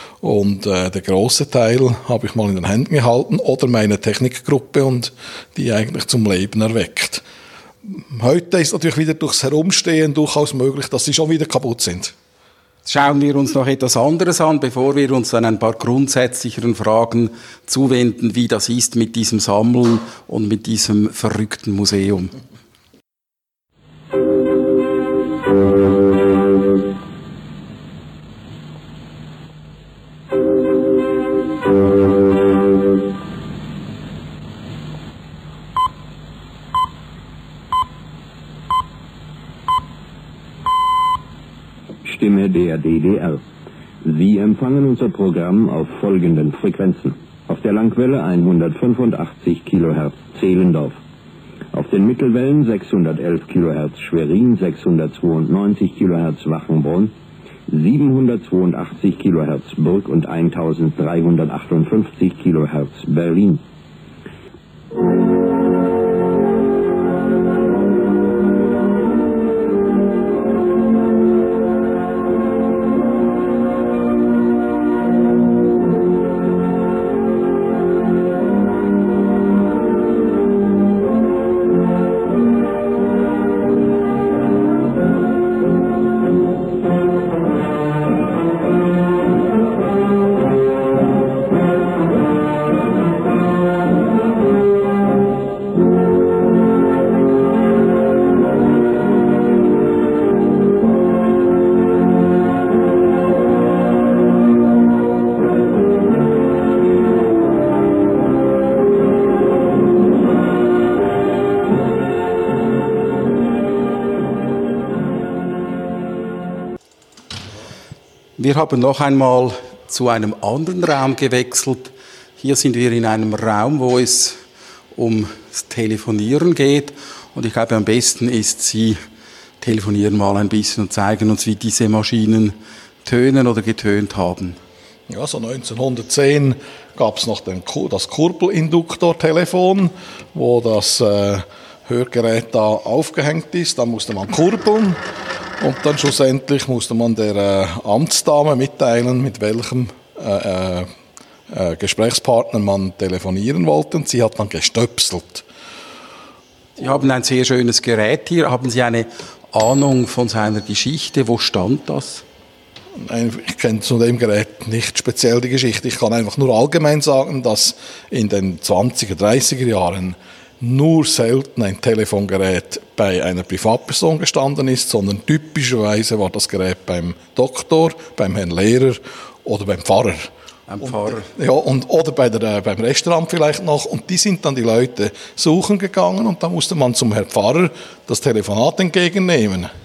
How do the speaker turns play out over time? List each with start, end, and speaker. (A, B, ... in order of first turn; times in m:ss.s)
0:00.2-0:07.2 A
0:07.8-0:12.1 A
0:12.9-0:22.3 B
0:42.0-0:43.4 C
0:44.0-0:51.0 C
0:51.7-0:57.1 C
0:57.7-1:03.6 C
1:58.4-2:04.4 B
2:05.0-2:09.0 B
2:09.6-2:14.6 B
2:15.1-2:25.0 A
2:25.6-2:30.9 A
2:31.5-2:35.5 A
2:36.8-2:42.2 B
2:43.0-3:09.7 A
3:00.7-3:01.3 B